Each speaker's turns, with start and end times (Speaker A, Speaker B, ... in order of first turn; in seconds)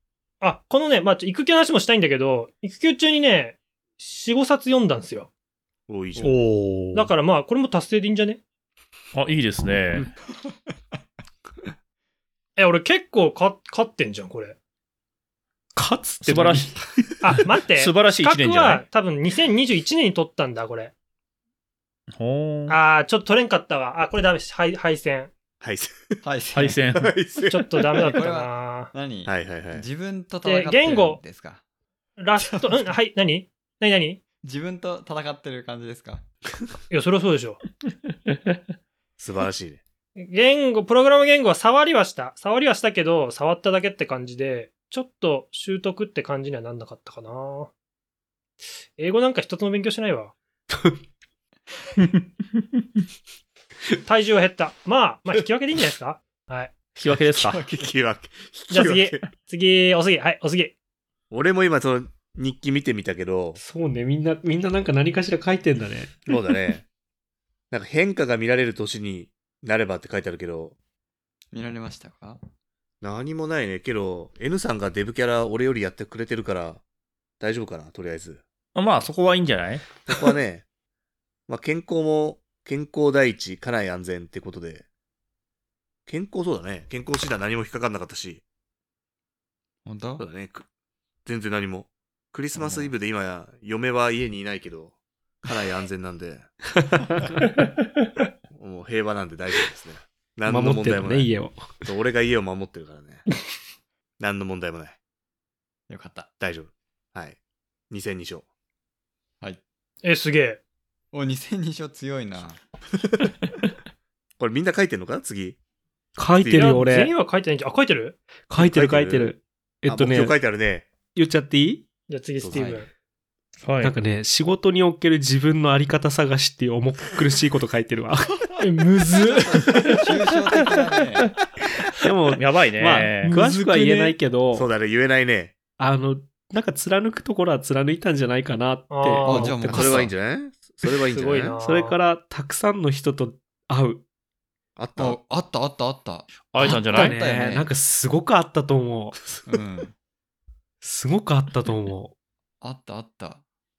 Speaker A: 0.4-5.3, 6.9-8.4, 12.6-14.6, 17.2-20.9, 22.7-25.3, 27.5-28.9, 30.4-31.2, 32.2-34.2, 36.9-37.6, 40.1-47.7, 49.0-50.4, 54.1-56.7, 58.7-60.7, 110.0-110.6, 116.6-118.2, 122.1-122.9, 128.6-130.0, 133.2-134.2, 138.9-139.6, 141.1-142.0
Speaker B: 5.9-6.4, 25.6-26.2, 26.9-28.1, 29.2-29.9, 39.2-39.8, 57.5-59.2, 61.3-63.6, 66.3-66.8, 67.7-70.8, 73.0-76.8, 77.4-78.4, 80.1-80.6, 81.5-84.8, 86.1-88.4, 90.2-90.6, 91.2-96.5, 98.5-101.3, 101.8-103.2, 104.2-105.0, 106.4-107.4, 107.9-108.5, 114.4-115.6, 116.4-116.7, 118.6-119.3, 119.9-120.9, 122.4-122.8, 134.5-135.6, 139.7-141.6, 144.8-145.2
Speaker C: 6.2-7.1, 9.1-10.1, 16.2-16.8, 17.3-18.8, 22.2-22.8, 26.5-27.1, 57.0-57.6, 78.8-79.9, 123.6-124.0, 132.3-133.3, 146.5-147.2
Speaker D: 15.8-16.8, 63.6-66.2, 100.5-101.9, 116.2-117.1, 118.5-120.4, 121.1-121.9, 123.8-128.4, 132.0-134.7, 135.8-140.1, 141.6-144.0, 146.6-149.2, 150.8-152.1
Speaker E: 26.2-26.8, 27.9-31.6, 32.4-32.8, 34.4-36.2, 57.4-57.9, 71.5-72.4, 89.8-90.2, 92.6-92.9, 105.9-106.3, 111.1-112.6, 129.8-131.4, 139.2-140.1, 145.0-147.7, 149.5-149.9, 152.6-153.4